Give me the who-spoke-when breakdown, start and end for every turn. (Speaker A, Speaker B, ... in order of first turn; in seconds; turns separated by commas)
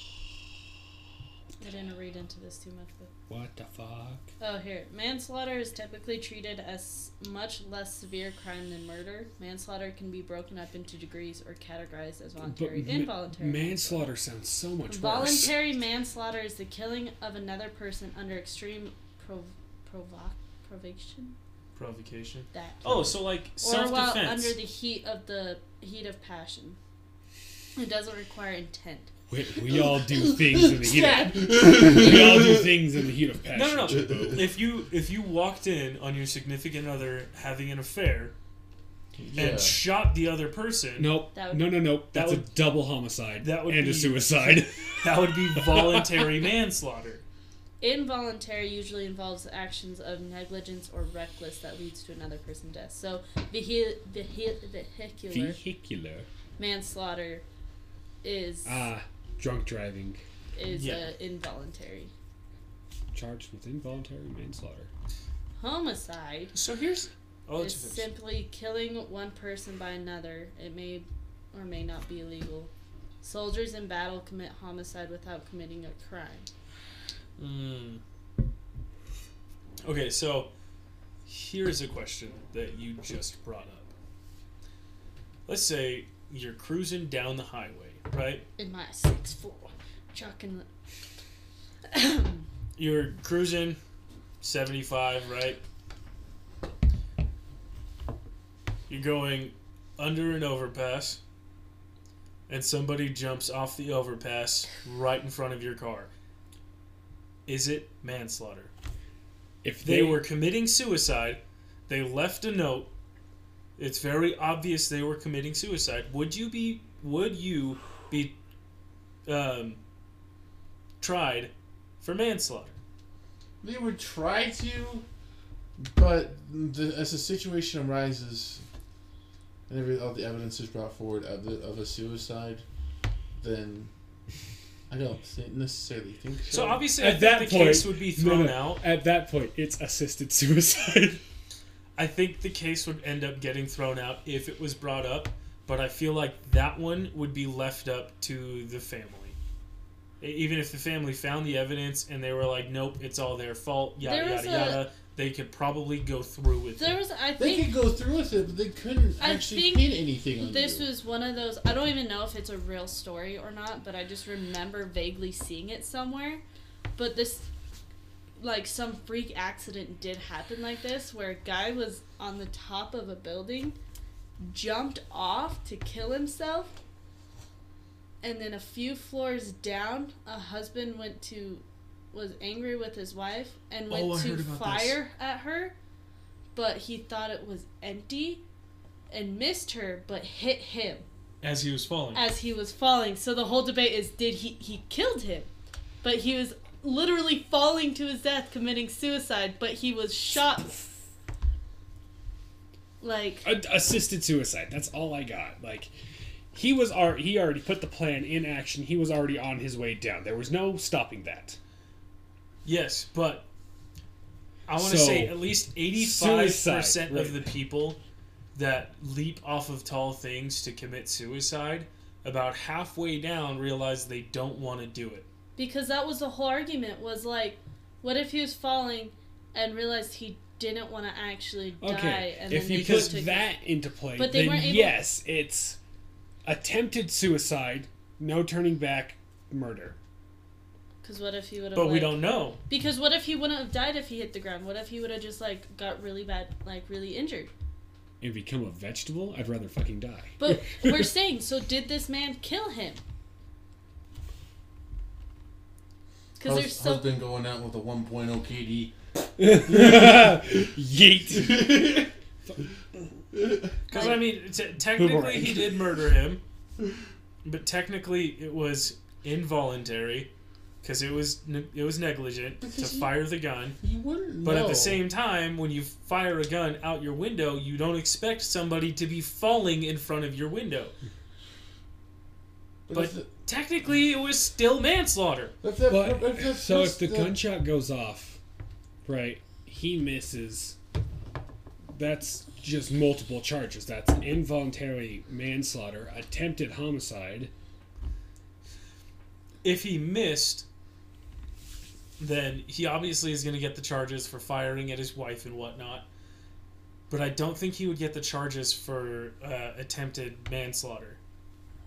Speaker A: 1.6-3.1, Speaker B: 3.3-4.3, Speaker A: 4.4-14.1, Speaker B: 12.4-15.5, Speaker A: 14.9-21.4, Speaker C: 21.8-24.6, Speaker A: 22.5-26.8, Speaker A: 27.8-29.1, Speaker B: 29.3-34.5, Speaker D: 29.7-32.7, Speaker C: 33.5-38.3, Speaker D: 33.9-34.4, Speaker D: 39.2-39.8, Speaker C: 39.4-41.1, Speaker B: 41.0-46.3, Speaker A: 41.3-41.7, Speaker C: 42.1-42.5, Speaker C: 43.4-47.2, Speaker A: 47.8-55.6, Speaker B: 55.3-56.3, Speaker A: 56.6-57.4, Speaker A: 58.2-58.8, Speaker B: 58.6-60.2, Speaker A: 60.5-62.1, Speaker C: 60.7-61.1, Speaker B: 63.1-64.9, Speaker A: 65.6-66.5, Speaker C: 66.5-68.1, Speaker A: 67.6-72.7, Speaker A: 73.2-76.5, Speaker C: 77.4-78.0, Speaker C: 79.8-80.5, Speaker C: 81.3-83.9, Speaker C: 85.5-88.5, Speaker A: 88.6-90.7, Speaker A: 91.9-92.5, Speaker C: 92.8-93.8, Speaker C: 94.4-95.6, Speaker C: 98.9-101.2, Speaker C: 102.5-106.1, Speaker C: 107.5-108.7, Speaker B: 109.6-110.2, Speaker C: 109.8-112.9, Speaker C: 113.8-118.3, Speaker C: 119.3-119.8, Speaker C: 121.0-122.8, Speaker D: 123.6-125.0, Speaker D: 125.8-128.6, Speaker D: 129.7-132.7, Speaker D: 133.4-133.9, Speaker D: 134.9-136.9, Speaker C: 136.5-138.8, Speaker B: 136.8-141.2, Speaker C: 142.0-149.4, Speaker C: 150.2-157.0, Speaker A: 154.0-154.9, Speaker A: 156.8-157.7, Speaker D: 157.4-160.9, Speaker A: 159.2-166.4, Speaker A: 167.0-167.5, Speaker A: 168.4-173.8, Speaker A: 174.4-176.8, Speaker A: 178.2-185.8, Speaker C: 183.9-185.0, Speaker A: 186.6-188.4, Speaker A: 189.1-191.1, Speaker C: 191.4-192.2, Speaker A: 192.1-195.5, Speaker A: 196.0-201.0, Speaker A: 203.0-203.5, Speaker B: 203.4-205.9, Speaker B: 206.5-211.6, Speaker C: 212.7-213.5, Speaker C: 214.7-218.0, Speaker B: 214.8-215.4, Speaker B: 215.9-217.5, Speaker C: 218.6-225.3, Speaker A: 225.6-233.5, Speaker B: 231.8-235.8, Speaker C: 232.7-233.2, Speaker A: 234.2-235.0, Speaker B: 236.4-240.0, Speaker A: 241.0-247.5, Speaker C: 241.8-242.6, Speaker B: 248.2-251.0, Speaker A: 250.4-253.0, Speaker A: 256.4-257.1, Speaker D: 256.4-260.7, Speaker B: 259.4-263.0, Speaker D: 261.3-262.1, Speaker D: 263.3-263.8, Speaker C: 263.9-266.4, Speaker A: 263.9-264.2, Speaker B: 264.9-265.9, Speaker C: 267.4-270.3, Speaker C: 270.8-273.8, Speaker D: 272.6-273.1, Speaker D: 273.8-275.0, Speaker C: 274.4-280.9, Speaker D: 282.9-283.3, Speaker C: 282.9-285.6, Speaker D: 285.6-287.4, Speaker B: 285.9-288.4, Speaker B: 289.0-290.8, Speaker B: 291.9-297.5, Speaker C: 299.6-300.7, Speaker C: 302.2-306.1, Speaker C: 307.1-311.2